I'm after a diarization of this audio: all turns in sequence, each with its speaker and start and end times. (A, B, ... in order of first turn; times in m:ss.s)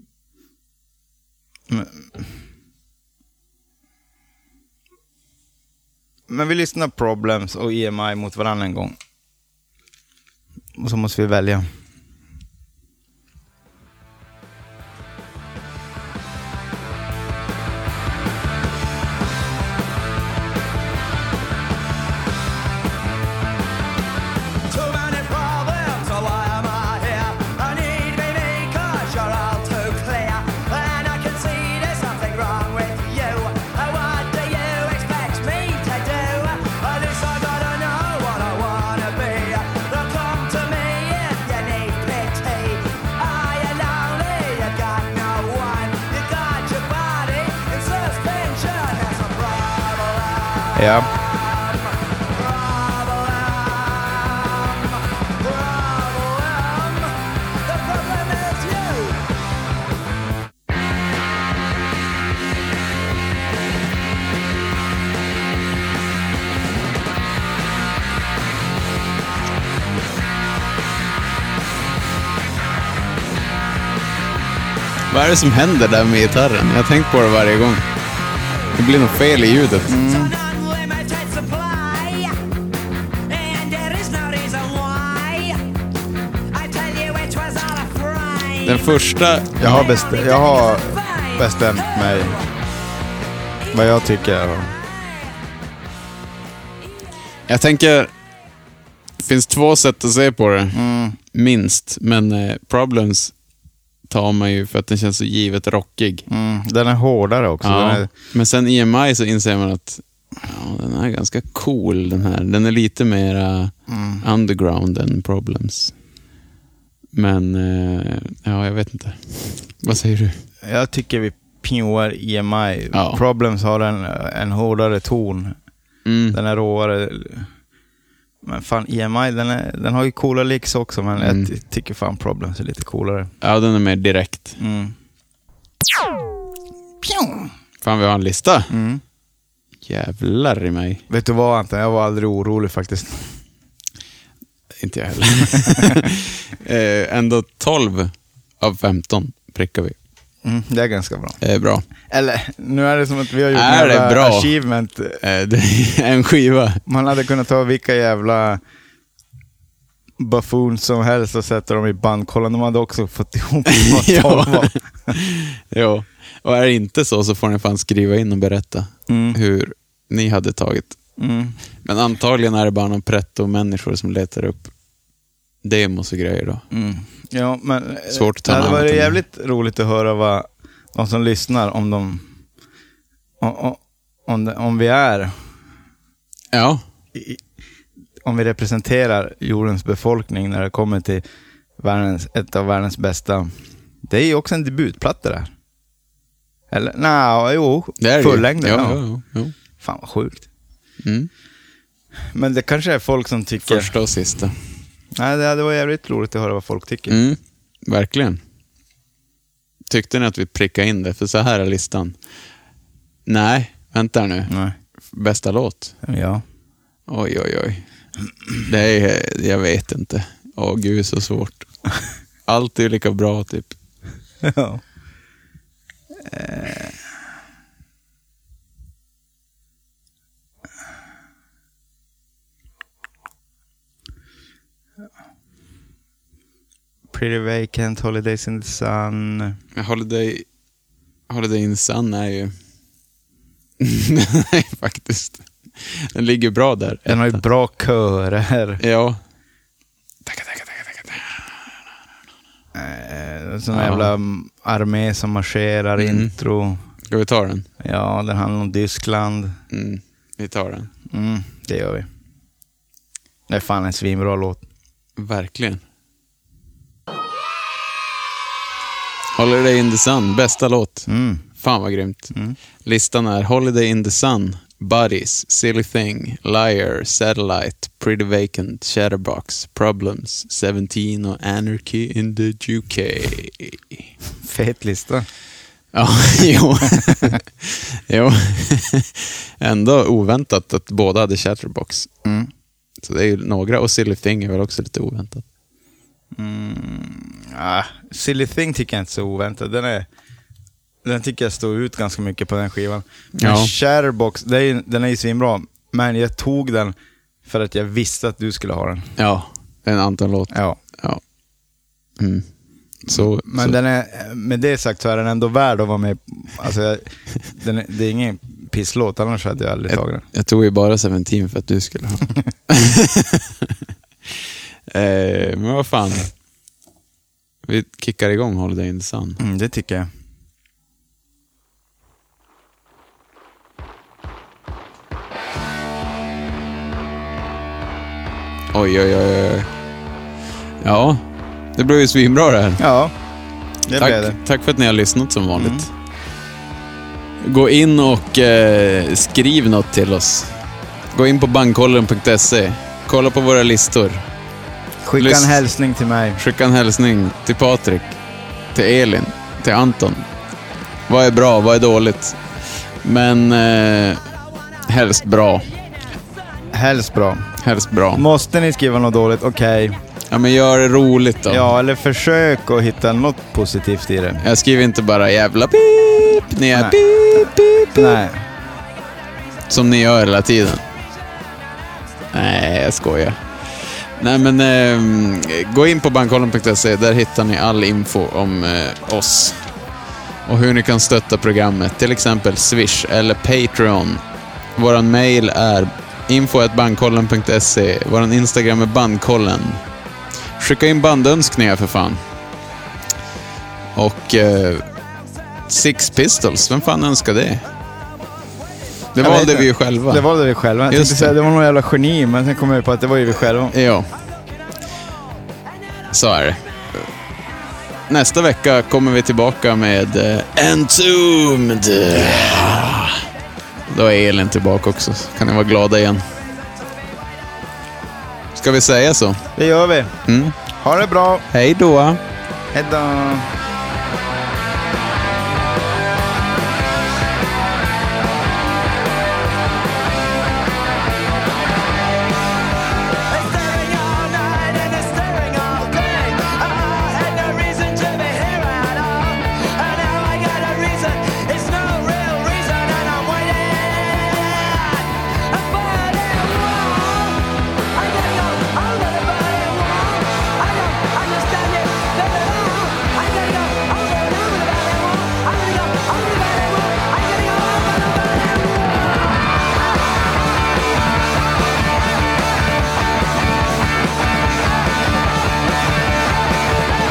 0:01.7-0:02.3 A
0:06.3-0:09.0 A
0:10.8-0:11.7 A
0:24.7-0:59.3 B
0:50.7-0:51.1 A
1:15.1-1:17.8 C
1:18.7-1:20.0 C
1:19.9-1:20.3 A
1:20.1-1:22.4 B
1:23.3-1:25.6 B
1:26.5-1:28.8 B
1:28.6-1:29.9 C
1:29.6-1:32.4 A
1:29.9-1:32.4 B
1:33.7-1:34.7 A
1:37.5-1:38.1 C
1:39.2-1:43.3 C
1:40.7-1:41.2 A
1:44.1-1:46.2 C
1:46.3-1:48.1 A
1:47.6-1:55.9 C
1:53.9-1:54.2 A
1:57.1-2:00.4 C
2:00.6-2:05.6 A
2:02.9-2:03.2 C
2:06.0-2:06.4 C
2:06.3-2:07.5 A
2:08.4-2:13.3 A
2:11.2-2:11.5 C
2:13.4-2:14.6 C
2:14.6-2:14.9 A
2:17.0-2:17.5 A
2:17.8-2:18.7 C
2:18.7-2:19.0 A
2:19.8-2:21.0 C
2:21.1-2:23.3 A
2:24.8-2:30.0 C
2:25.6-2:26.0 A
2:30.4-2:31.4 A
2:31.4-2:31.8 C
2:32.0-2:35.2 A
2:33.5-2:34.5 C
2:35.2-2:36.8 C
2:36.8-2:38.6 A
2:40.2-2:45.2 A
2:43.7-2:51.0 C
2:49.1-2:49.4 A
2:51.2-2:51.6 A
2:51.8-2:54.7 C
2:55.6-2:56.6 C
2:56.7-3:02.3 A
2:58.1-2:59.2 C
3:03.4-3:05.4 A
3:06.5-3:06.8 C
3:07.1-3:07.4 A
3:08.2-3:11.2 A
3:11.8-3:13.5 A
3:14.0-3:15.5 A
3:16.7-3:19.0 A
3:18.0-3:19.5 C
3:19.8-3:20.5 A
3:21.0-3:21.3 C
3:22.3-3:24.0 A
3:23.6-3:24.5 C
3:25.1-3:27.2 A
3:27.1-3:28.4 C
3:29.9-3:32.2 C
3:33.2-3:34.5 C
3:34.5-3:34.8 A
3:35.0-3:36.0 C
3:36.0-3:36.4 A
3:37.1-3:37.9 C
3:38.6-3:41.7 C
3:42.4-3:43.8 C
3:44.4-3:44.8 A
3:46.2-3:47.0 A
3:57.1-3:59.6 A
3:59.7-4:00.4 C
4:01.3-4:02.5 C
4:03.8-4:07.4 C
4:07.0-4:08.8 A
4:08.8-4:09.2 C
4:10.2-4:11.5 C
4:12.7-4:16.8 A
4:13.7-4:14.1 C
4:16.0-4:16.3 C
4:17.0-4:17.7 C
4:17.8-4:19.5 A
4:19.7-4:20.9 C
4:21.1-4:22.1 A
4:23.5-4:24.6 A
4:25.2-4:25.8 C
4:29.3-4:44.1 C
4:31.1-4:31.4 A
4:44.4-4:45.2 A
4:45.9-4:52.1 C
4:52.2-4:52.5 A
4:53.0-4:55.4 C
4:56.3-5:00.1 A
5:01.0-5:09.1 A
5:03.4-5:03.7 C
5:09.2-5:11.2 C
5:10.5-5:10.8 A
5:12.2-5:12.5 C
5:13.0-5:13.8 C
5:13.1-5:20.2 A
5:19.9-5:23.7 C
5:24.9-5:26.3 C
5:27.6-5:29.4 C
5:29.4-5:30.1 A
5:38.7-5:39.7 C
5:40.8-5:41.2 C
5:41.7-5:42.8 C
5:42.8-5:43.1 A
5:43.9-5:44.4 A
5:44.0-5:45.9 C
5:45.6-5:45.9 A
5:47.4-5:50.6 C
5:51.1-5:54.2 C
5:55.0-5:56.4 A
5:55.2-5:55.6 C
5:56.4-5:58.2 C
5:58.7-6:00.3 C
6:01.1-6:04.2 C
6:04.9-6:05.7 C
6:06.7-6:07.5 A
6:07.6-6:08.2 C
6:08.1-6:10.0 A
6:10.3-6:11.6 C
6:11.5-6:14.4 A
6:14.4-6:18.2 C
6:16.7-6:18.4 A
6:19.7-6:20.8 C
6:22.3-6:23.4 C
6:24.0-6:29.7 C
6:30.4-6:34.2 C
6:34.7-6:39.8 C
6:40.6-6:42.2 C
6:43.9-6:44.9 C
6:45.7-6:47.7 C
6:49.1-6:50.3 C
6:49.2-6:53.7 A
6:50.9-6:51.3 C
6:53.7-6:54.1 C
6:56.1-6:57.1 C
6:58.1-7:03.2 C
7:02.1-7:02.8 A
7:03.9-7:06.3 C
7:08.5-7:09.4 C
7:09.5-7:10.1 A
7:10.3-7:10.6 C
7:10.7-7:11.4 A
7:11.5-7:12.2 C
7:12.7-7:13.5 A
7:23.3-7:49.0 B